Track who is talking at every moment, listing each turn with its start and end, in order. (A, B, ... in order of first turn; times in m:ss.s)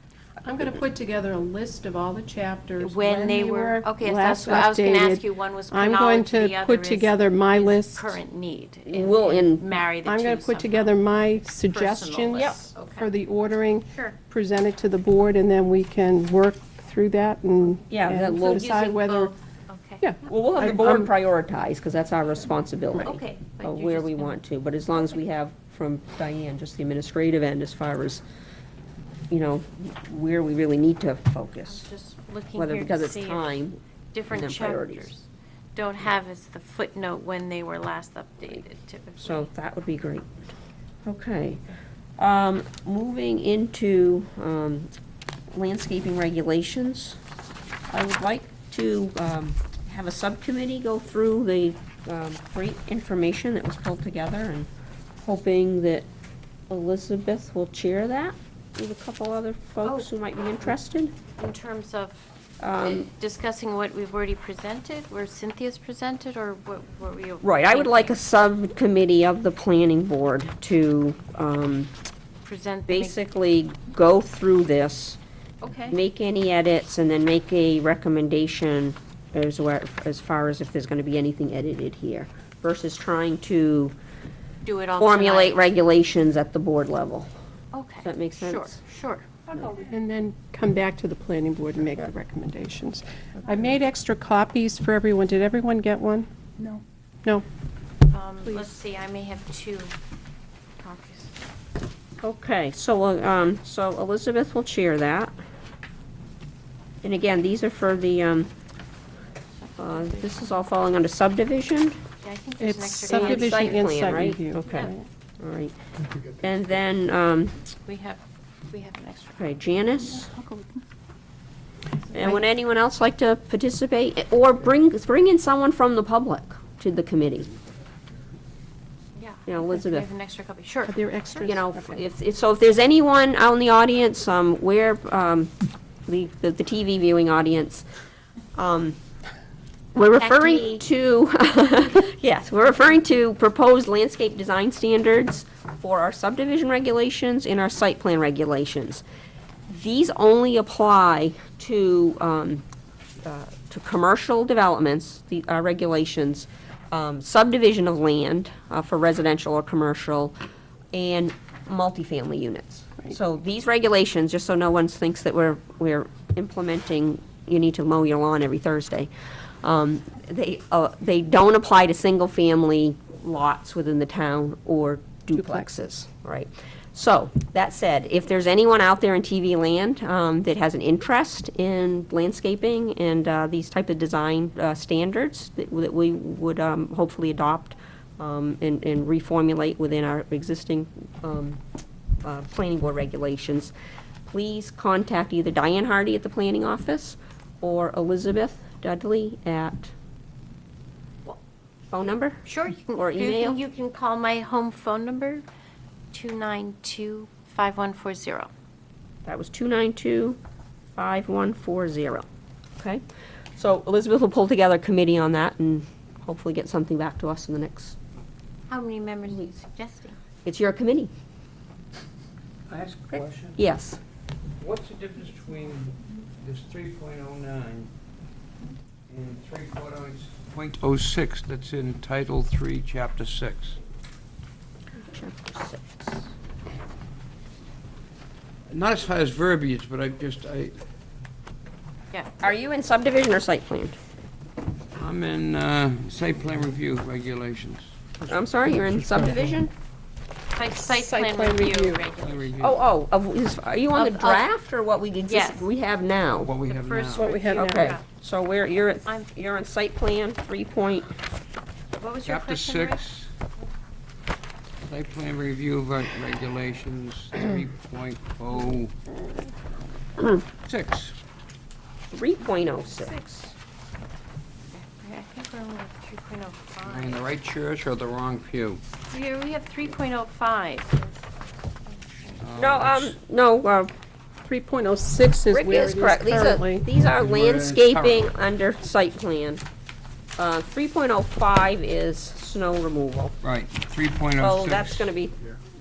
0:00.4-0:08.2 A
0:02.8-0:10.9 B
0:08.9-0:09.6 C
0:10.0-0:19.3 A
0:11.7-0:13.1 B
0:13.9-0:14.2 B
0:17.9-0:19.0 C
0:19.0-0:20.1 B
0:20.0-0:21.1 A
0:20.2-0:28.2 C
0:23.0-0:24.4 B
0:29.3-0:31.9 C
0:31.7-0:33.6 B
0:32.6-0:33.8 C
0:34.1-0:39.5 B
0:34.3-0:35.1 C
0:39.2-0:40.3 C
0:41.0-0:41.6 C
0:42.2-0:44.9 C
0:45.5-0:47.2 C
0:47.9-0:54.7 C
0:55.2-0:56.1 C
0:56.7-1:01.1 C
0:59.8-1:00.1 B
1:01.3-1:08.2 B
1:02.6-1:03.1 C
1:07.4-1:11.9 C
1:12.4-1:13.2 B
1:12.9-1:15.2 C
1:15.6-1:16.0 B
1:15.9-1:23.9 C
1:24.6-1:25.6 B
1:25.0-1:27.3 C
1:27.7-1:29.9 B
1:28.0-1:28.8 C
1:29.7-1:37.4 A
1:38.1-1:39.9 B
1:40.8-1:41.3 B
1:42.2-1:45.3 C
1:47.0-1:48.5 C
1:49.8-1:52.0 C
1:52.2-1:54.9 B
1:52.6-1:54.9 A
1:53.1-1:55.7 C
1:56.3-1:57.6 C
1:57.8-1:59.6 B
1:59.4-2:00.3 C
2:02.1-2:07.5 C
2:09.2-2:11.0 B
2:09.5-2:10.0 C
2:10.8-2:12.0 A
2:11.4-2:15.5 C
2:16.1-2:17.8 C
2:18.5-2:19.0 C
2:19.9-2:29.0 C
2:20.2-2:20.8 B
2:29.7-2:32.6 C
2:33.2-2:40.3 C
2:40.9-2:49.1 C
2:49.6-3:11.6 C
2:55.4-2:55.7 A
3:12.2-3:13.7 C
3:14.2-3:19.9 C
3:21.9-3:22.4 C
3:22.4-3:25.4 B
3:23.0-3:23.6 C
3:26.1-3:28.5 B
3:29.2-3:30.4 C
3:31.0-3:32.2 C
3:33.6-3:38.0 C
3:38.7-3:40.2 B
3:40.4-3:41.1 C
3:42.7-3:43.6 D
3:43.6-3:44.0 C
3:44.6-3:47.9 D
3:49.1-3:53.8 D
3:55.0-3:56.3 C
3:58.7-4:00.8 D
4:02.4-4:03.9 C
4:05.0-4:07.9 D
4:08.3-4:09.7 C
4:10.5-4:12.6 B
4:10.8-4:12.0 A
4:12.2-4:12.8 D
4:12.6-4:16.5 C
4:13.9-4:14.5 B
4:15.3-4:15.7 B
4:16.3-4:17.3 D
4:16.6-4:18.0 B
4:17.1-4:18.0 A
4:17.5-4:21.1 C
4:19.0-4:19.3 B
4:22.0-4:23.0 B
4:22.2-4:23.3 D
4:24.9-4:28.9 D
4:30.6-4:31.1 D
4:32.1-4:33.5 C
4:34.7-4:37.2 B
4:36.8-4:38.8 D
4:39.1-4:41.2 B
4:41.9-4:42.4 B
4:42.4-4:43.1 D
4:42.6-4:43.9 C
4:44.4-4:46.9 A
4:45.5-4:49.6 C
4:47.1-4:48.3 D
4:50.4-4:53.4 C
4:53.4-4:55.1 D
4:54.4-4:55.3 C